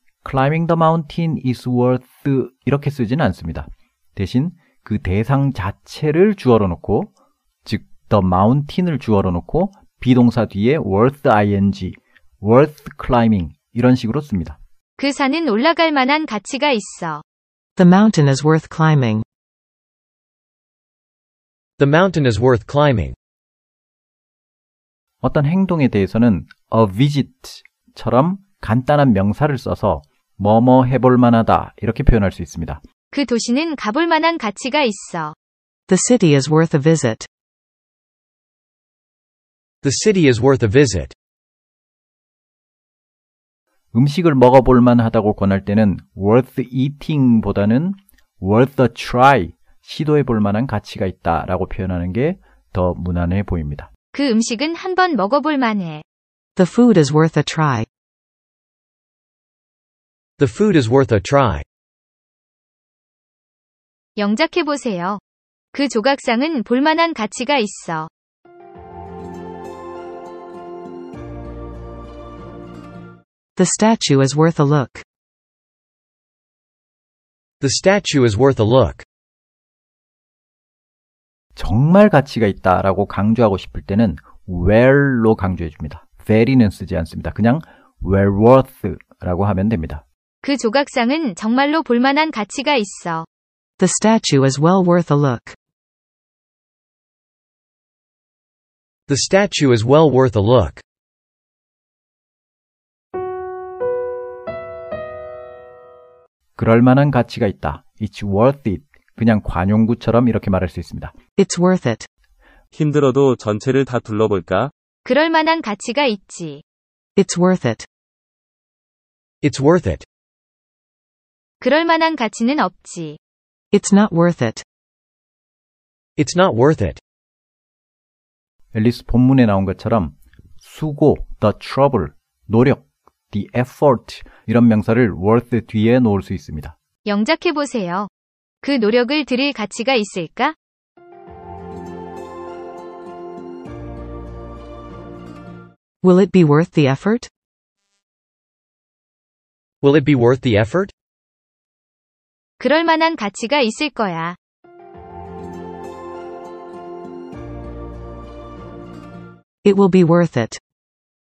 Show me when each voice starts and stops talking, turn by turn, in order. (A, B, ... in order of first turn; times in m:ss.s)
0:00.2-0:07.1 A
0:07.6-0:14.6 A
0:15.0-0:17.2 B
0:17.8-0:19.2 C
0:21.8-0:23.1 D
0:25.2-0:32.8 A
0:33.1-0:35.3 B
0:35.9-0:37.3 C
0:39.8-0:41.1 D
0:43.9-0:53.9 A
0:54.1-0:56.0 B
0:56.6-0:57.9 C
1:00.4-1:01.6 D
1:04.2-1:05.2 B
1:05.7-1:08.1 B
1:13.5-1:15.0 C
1:17.6-1:19.0 D
1:21.6-1:30.0 A
1:30.4-1:33.2 B
1:33.8-1:35.6 C
1:39.1-1:40.8 D
1:46.6-1:51.1 A
1:51.4-1:52.1 C
1:52.7-1:54.7 E
1:55.0-1:56.6 B
1:57.2-1:57.9 C
1:59.4-2:00.0 D
2:01.6-2:03.2 B
2:03.7-2:04.6 C
2:06.2-2:07.0 D
2:08.7-2:16.8 A
2:17.0-2:18.1 B
2:18.6-2:20.5 B
2:26.0-2:27.3 C
2:29.8-2:30.9 D
2:32.6-2:34.4 B
2:39.6-2:40.6 C